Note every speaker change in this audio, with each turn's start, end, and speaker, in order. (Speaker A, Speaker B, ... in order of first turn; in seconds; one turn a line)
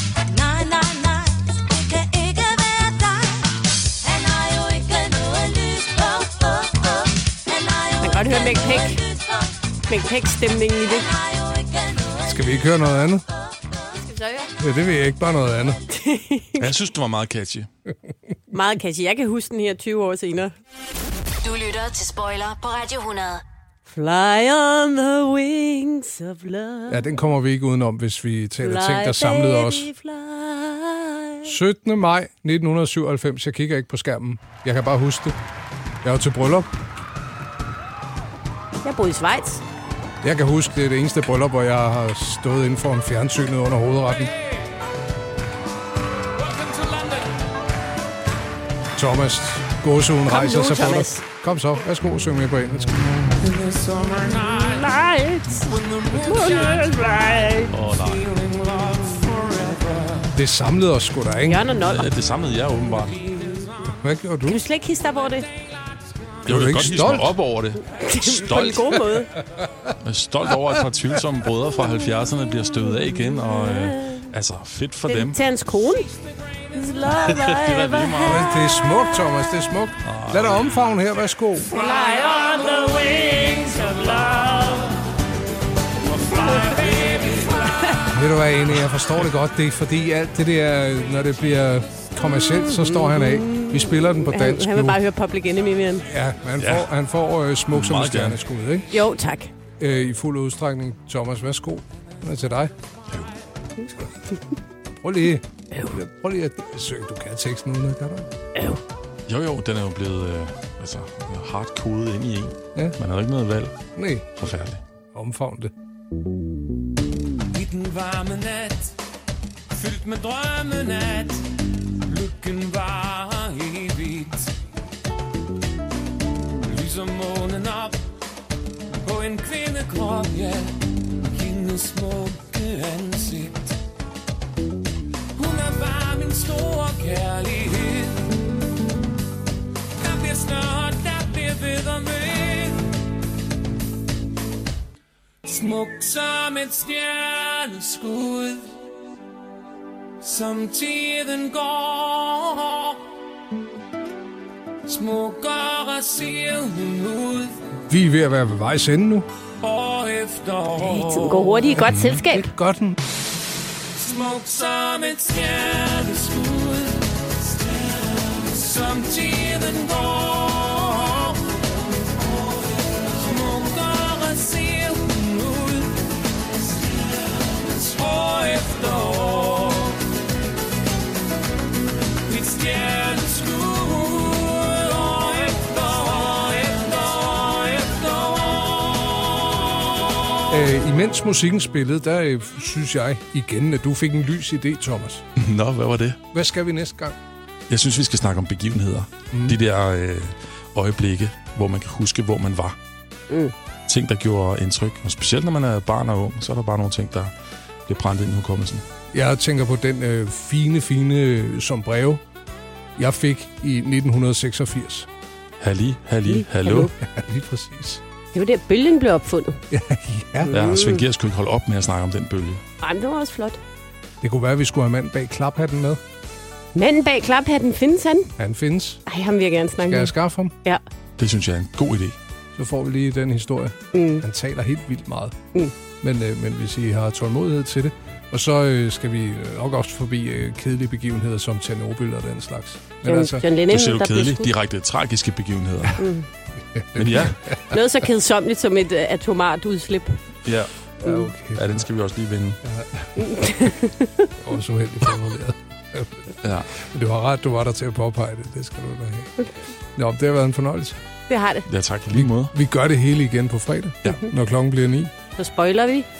Speaker A: 8.0-9.0
Speaker A: 9.9-11.1
Speaker B: 12.2-13.2
Speaker A: 13.9-14.5
Speaker B: 14.6-15.8
Speaker A: 15.9-16.7
Speaker C: 16.6-17.7
Speaker A: 18.5-20.5
Speaker D: 21.4-23.4
Speaker A: 23.9-27.1
Speaker B: 26.9-29.9
Speaker A: 28.6-31.5
Speaker B: 31.4-35.4
Speaker B: 36.0-36.7
Speaker A: 38.8-39.6
Speaker B: 40.2-44.3
Speaker E: 46.4-47.4
Speaker B: 49.0-53.1
Speaker A: 50.3-51.2
Speaker E: 53.4-55.0
Speaker A: 54.6-55.6
Speaker E: 55.5-60.3
Speaker A: 56.2-57.7
Speaker C: 57.7-58.3
Speaker B: 60.3-61.7
Speaker A: 61.5-62.1
Speaker C: 61.8-63.2
Speaker E: 63.0-64.0
Speaker B: 64.0-64.6
Speaker A: 64.5-65.5
Speaker B: 66.5-67.3
Speaker C: 66.5-68.8
Speaker A: 67.8-69.3
Speaker B: 68.5-69.2
Speaker C: 70.0-75.4
Speaker A: 73.1-74.3
Speaker A: 75.1-76.0
Speaker A: 76.7-78.4
Speaker C: 77.1-78.5
Speaker B: 78.2-81.7
Speaker C: 80.0-80.8
Speaker E: 81.7-85.0
Speaker E: 86.0-88.0
Speaker B: 88.1-95.0
Speaker A: 92.5-96.1
Speaker B: 96.0-98.9
Speaker C: 96.6-96.9
Speaker C: 97.7-98.4
Speaker A: 98.9-99.5
Speaker B: 99.8-102.7
Speaker B: 105.0-108.3
Speaker A: 108.5-108.8
Speaker C: 109.3-113.8
Speaker B: 113.9-114.3
Speaker C: 114.4-114.8
Speaker B: 115.1-115.7
Speaker E: 117.5-118.9
Speaker E: 119.7-121.5
Speaker E: 122.0-124.5
Speaker E: 126.7-128.0
Speaker E: 129.0-133.8
Speaker E: 135.3-138.3
Speaker E: 140.0-142.9
Speaker E: 145.4-148.7
Speaker E: 150.2-153.0
Speaker E: 154.8-157.6
Speaker B: 157.9-159.3
Speaker E: 159.6-161.7
Speaker A: 160.8-162.4
Speaker B: 162.1-163.0
Speaker E: 163.9-180.0
Speaker E: 182.2-190.1
Speaker B: 190.5-195.2
Speaker C: 195.3-196.2
Speaker B: 196.3-197.2
Speaker C: 197.7-202.8
Speaker B: 199.3-199.6
Speaker C: 203.9-207.3
Speaker C: 207.8-208.8
Speaker B: 209.1-212.2
Speaker B: 213.0-215.1
Speaker C: 215.6-216.9
Speaker A: 216.3-216.9
Speaker B: 217.0-218.0
Speaker A: 218.3-219.6
Speaker B: 219.7-220.6
Speaker A: 220.4-221.0
Speaker C: 220.5-222.6
Speaker A: 222.8-223.6
Speaker B: 224.2-226.0
Speaker A: 226.7-228.3
Speaker B: 228.4-229.0
Speaker A: 229.1-230.8
Speaker B: 229.8-230.5
Speaker C: 231.2-232.2
Speaker B: 232.5-235.4
Speaker A: 233.9-234.2
Speaker B: 236.0-243.4
Speaker A: 243.0-244.5
Speaker C: 243.7-246.0
Speaker A: 246.0-246.2
Speaker B: 246.7-247.7
Speaker C: 246.9-247.4
Speaker A: 247.7-250.2
Speaker C: 250.4-250.7
Speaker B: 251.0-251.8
Speaker C: 251.5-252.6
Speaker B: 252.6-253.3
Speaker A: 253.2-254.2
Speaker B: 254.4-259.3
Speaker C: 256.4-256.7
Speaker B: 259.9-261.0
Speaker A: 261.3-261.6
Speaker C: 261.6-262.5
Speaker B: 262.1-265.1
Speaker A: 265.4-266.1